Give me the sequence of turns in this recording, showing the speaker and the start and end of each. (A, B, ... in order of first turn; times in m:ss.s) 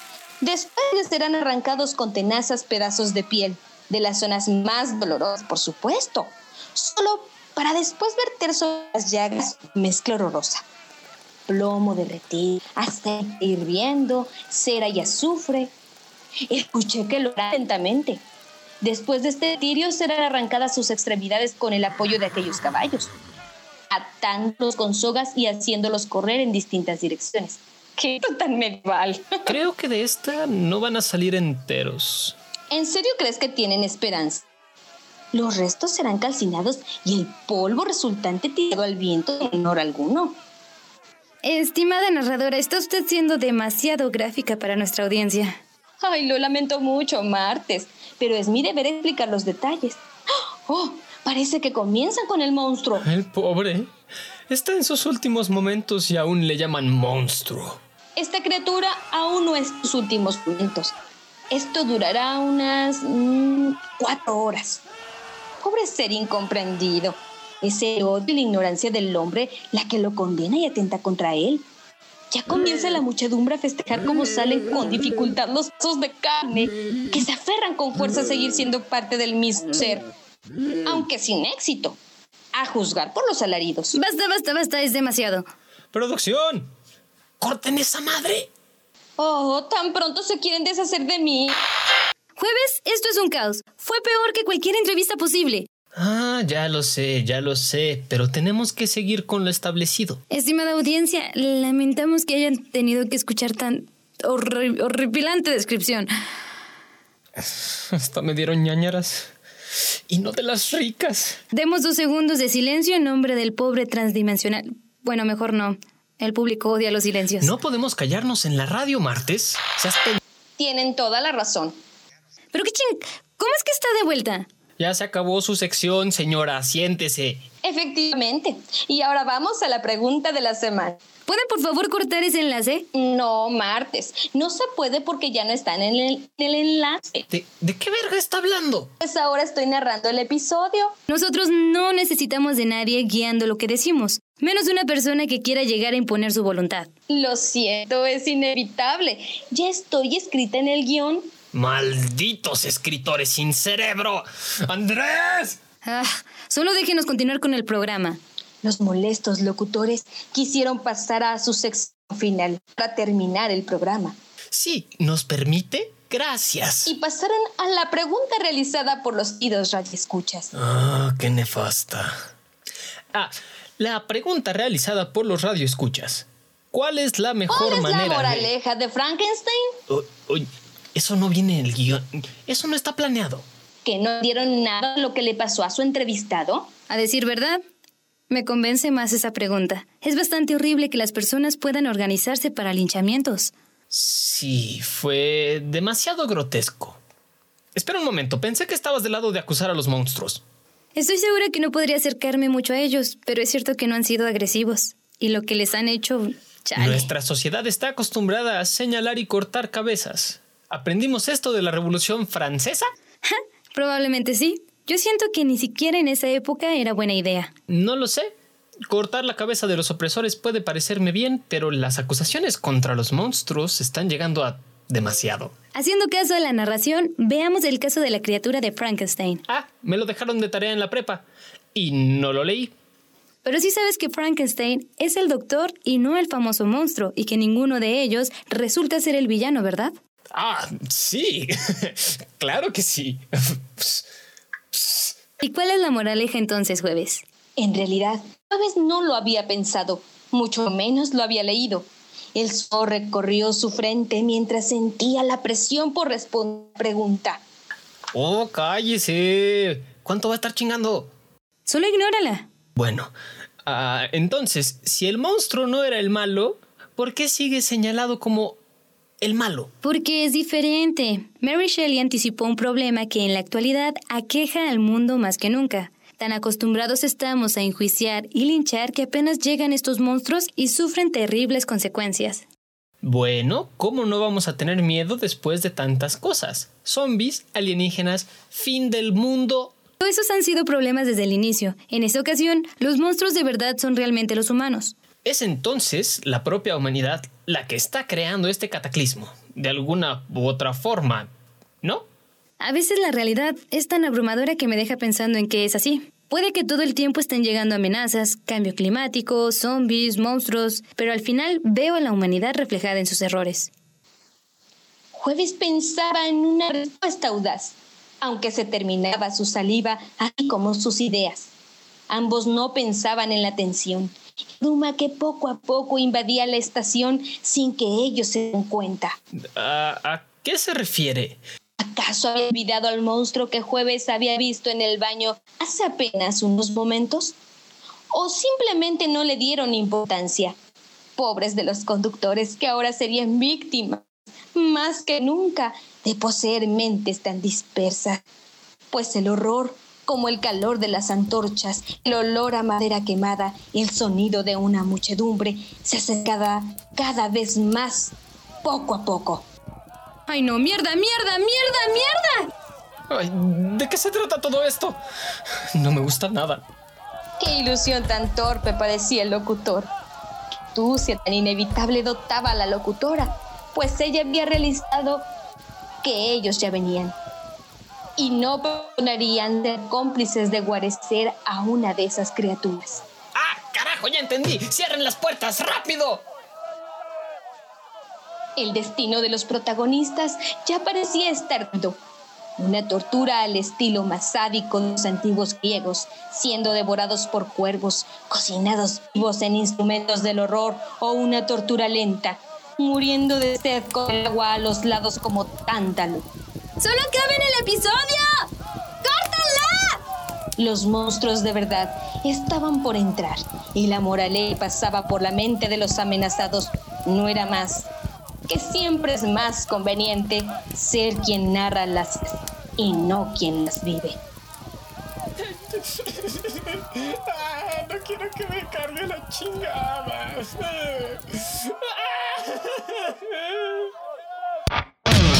0:00.4-0:10.6 A
0:11.5-0:15.7 A
0:16.5-0:18.2 A
0:18.8-0:23.1 A
0:23.9-0:29.5 A
0:29.5-0:32.4 B
0:32.7-0:34.4 A
0:35.3-0:40.4 A
0:41.4-0:45.6 C
0:46.0-0:53.1 A
0:53.0-0:53.9 B
0:54.5-0:57.8 B
0:58.2-1:00.9 A
1:01.5-1:04.8 A
1:05.6-1:11.6 A
1:12.3-1:20.0 A
1:20.8-1:22.0 A
1:22.5-1:24.0 A
1:23.9-1:25.4 C
1:25.9-1:26.7 B
1:27.4-1:28.5 B
1:29.2-1:31.6 A
1:32.4-1:35.7 C
1:35.9-1:40.2 B
1:40.3-1:46.1 C
1:47.4-1:49.3 B
1:50.1-1:51.4 B
1:51.5-1:57.5 C
1:57.4-2:00.2 B
2:00.6-2:01.8 A
2:02.5-2:04.5 C
2:04.8-2:07.4 B
2:07.6-2:11.0 A
2:11.2-2:12.9 C
2:12.9-2:17.2 A
2:17.3-2:18.9 B
2:19.0-2:20.9 A
2:21.1-2:26.9 C
2:27.1-2:31.3 A
2:31.5-2:35.6 B
2:35.8-2:38.2 C
2:38.6-2:44.2 A
2:44.5-2:46.9 B
2:46.8-2:50.5 A
2:50.5-2:52.2 B
2:53.1-2:58.5 B
2:57.5-2:59.8 A
2:59.9-3:03.4 B
3:03.8-3:06.7 A
3:06.9-3:07.6 C
3:08.3-3:13.5 C
3:13.9-3:17.0 B
3:17.7-3:20.4 B
3:21.0-3:27.1 C
3:26.8-3:32.9 B
3:33.2-3:37.5 C
3:37.7-3:38.3 B
3:38.9-3:45.5 B
3:45.7-3:49.4 C
3:49.5-3:52.7 B
3:53.4-3:59.9 C
4:00.3-4:04.0 B
4:04.7-4:05.1 B
4:05.4-4:07.2 C
4:07.6-4:17.4 A
4:18.1-4:21.1 B
4:21.7-4:22.5 C
4:22.8-4:23.1 B
4:23.6-4:28.6 B
4:29.2-4:29.7 B
4:29.8-4:42.4 C
4:43.0-4:49.7 B
4:50.0-4:54.9 C
4:55.2-5:01.3 B
5:02.6-5:13.7 C
5:15.1-5:21.5 A
5:22.1-5:29.2 A
5:29.5-5:31.4 B
5:31.8-5:37.3 A
5:38.1-5:40.5 A
5:41.2-5:48.2 A
5:48.9-5:59.5 A
6:00.3-6:02.4 C
6:03.1-6:05.0 B
6:05.7-6:06.6 B
6:07.4-6:09.9 A
6:10.7-6:15.2 A
6:16.0-6:17.2 A
6:18.2-6:23.0 A
6:23.3-6:26.2 B
6:28.6-6:32.0 A
6:32.6-6:46.2 A
6:46.8-6:48.5 C
6:49.0-6:50.0 C
6:50.6-6:57.9 A
6:58.5-7:04.2 A
7:05.4-7:13.8 B